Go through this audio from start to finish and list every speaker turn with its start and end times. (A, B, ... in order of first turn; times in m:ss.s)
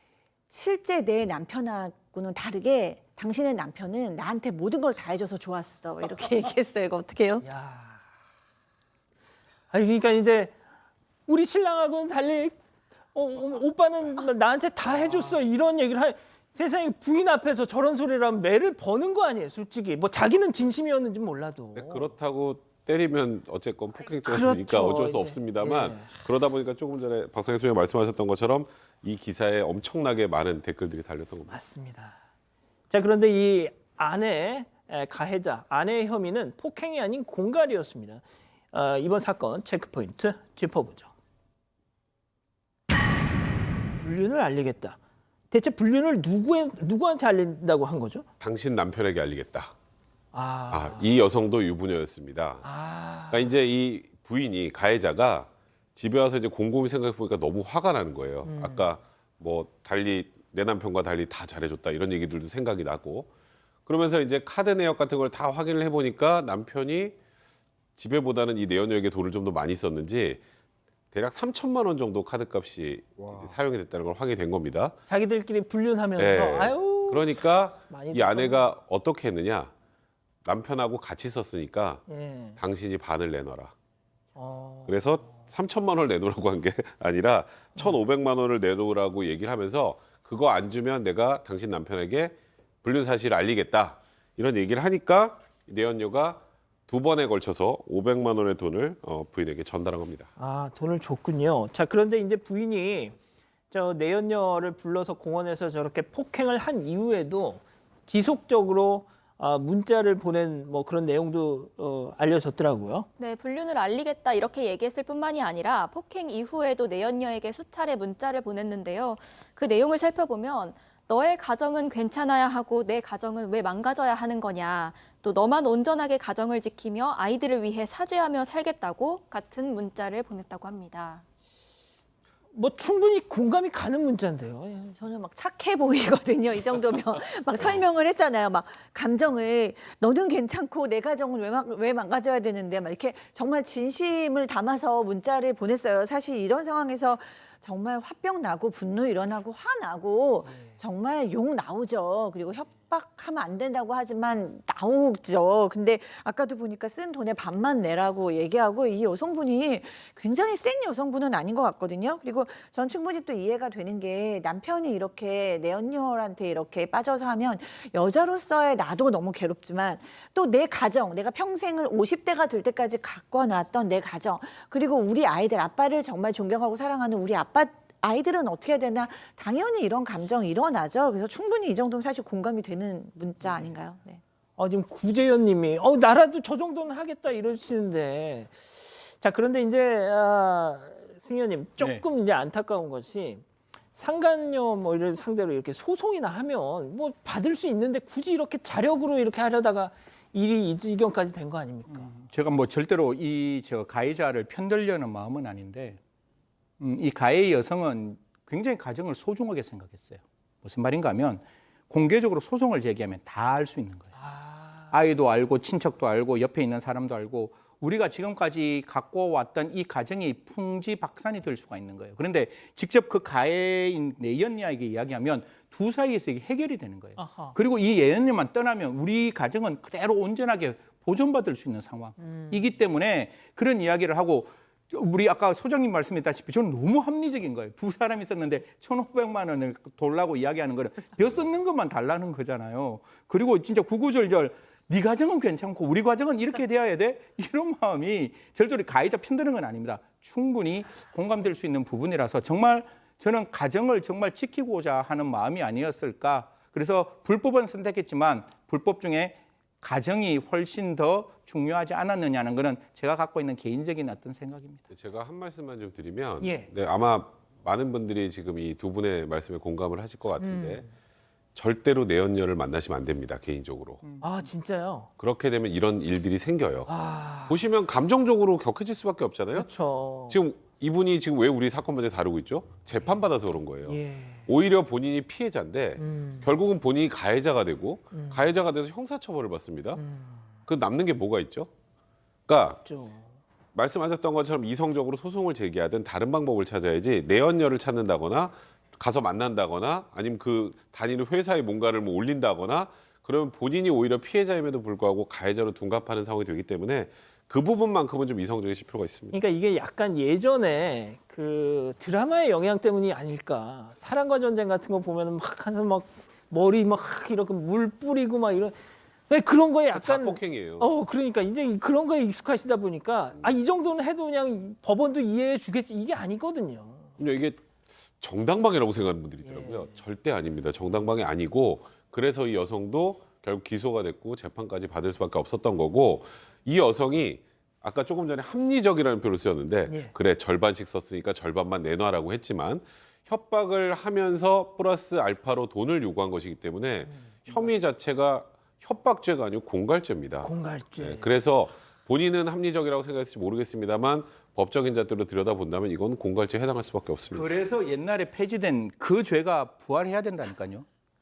0:00.5-0:07.5 A
0:07.4-0:08.0 B
0:09.7-0:10.6 B
0:11.3-0:12.6 B
0:13.1-0:22.1 B
0:21.8-0:31.6 C
0:24.2-0:26.1 B
0:31.5-0:32.2 B
0:32.9-0:41.1 B
0:44.0-0:45.0 B
0:45.5-0:48.3 B
0:48.4-0:49.7 C
0:50.3-0:51.1 B
0:50.7-0:52.7 C
0:52.6-0:53.5 B
0:53.3-1:03.3 C
0:58.4-0:58.9 B
1:03.9-1:07.2 C
1:08.0-1:10.4 C
1:11.1-1:15.0 C
1:15.1-1:18.8 B
1:16.2-1:19.7 C
1:20.4-1:22.0 C
1:22.1-1:22.6 B
1:22.6-1:23.7 C
1:24.4-1:25.0 B
1:24.9-1:40.3 C
1:40.4-1:43.2 B
1:43.7-1:53.1 B
1:53.2-2:11.2 D
2:12.5-2:15.0 B
2:15.0-3:04.2 A
2:30.5-2:30.7 B
3:04.6-3:22.1 B
3:21.9-3:26.0 E
3:26.8-3:34.1 E
3:34.2-3:34.9 B
3:34.9-4:24.8 E
3:47.2-3:47.6 B
3:52.2-3:52.6 B
4:24.9-4:30.9 C
4:26.4-4:26.7 B
4:30.4-4:30.9 B
4:31.6-4:34.0 C
4:34.0-4:34.3 E
4:34.2-4:35.1 B
4:35.2-4:36.9 C
4:36.9-4:37.6 B
4:37.5-4:39.7 C
4:39.6-4:40.4 B
4:40.3-4:50.0 C
4:43.9-4:44.4 B
4:46.0-4:46.5 B
4:48.1-4:48.4 B
4:50.0-4:50.4 B
4:50.7-4:51.7 C
4:52.5-4:52.8 C
4:52.8-4:53.3 B
4:53.8-5:09.4 C
5:09.3-5:18.8 B
5:19.3-5:27.1 B
5:20.0-5:20.9 C
5:27.2-5:27.6 C
5:28.2-5:57.5 C
5:29.4-5:30.0 B
5:47.1-5:47.5 B
5:50.4-5:51.3 B
5:57.3-6:00.8 E